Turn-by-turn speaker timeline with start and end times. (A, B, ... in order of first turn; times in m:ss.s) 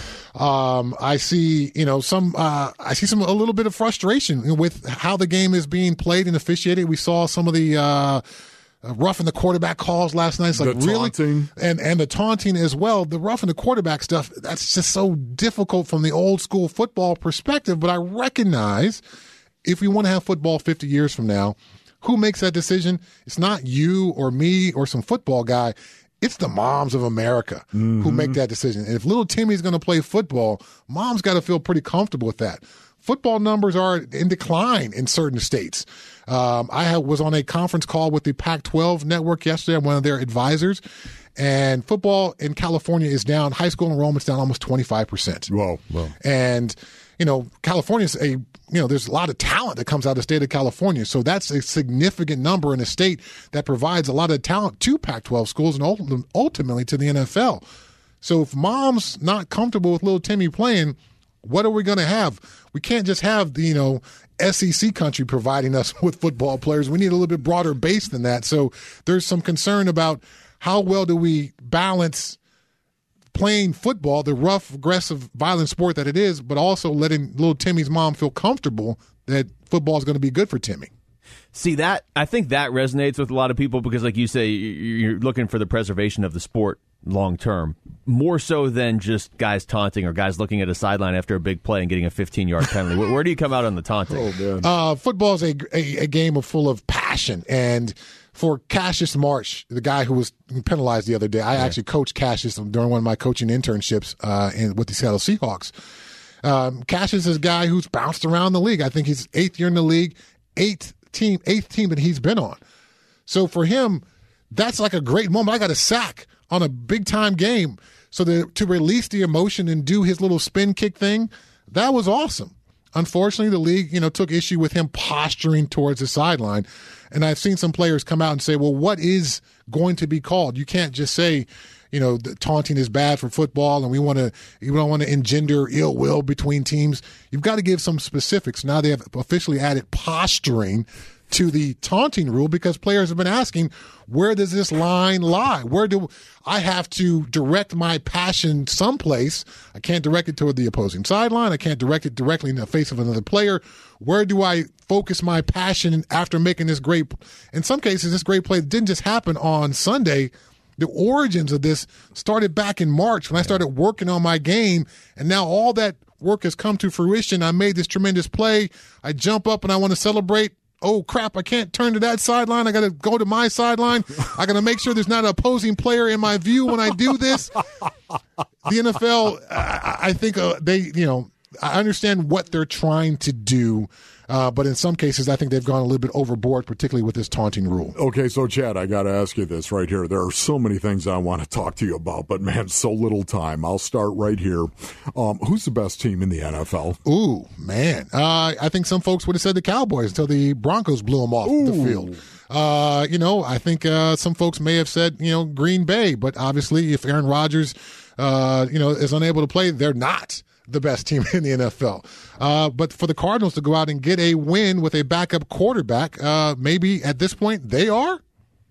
0:00.4-0:08.2 A
0:08.8-0:19.0 A
0:10.6-0:11.5 B
0:19.6-0:40.8 A
0:27.8-0:28.4 B
0:41.4-0:45.5 A
0:45.5-0:46.1 B
0:46.2-0:57.6 A
0:58.2-1:12.4 A
1:13.3-1:20.9 A
1:21.5-1:34.3 C
1:34.1-1:34.7 B
1:34.6-1:45.7 A
1:46.4-1:52.6 A
1:53.3-2:57.6 A
2:58.6-3:08.0 A
3:08.0-3:17.0 B
3:17.1-3:38.2 A
3:21.4-3:22.2 B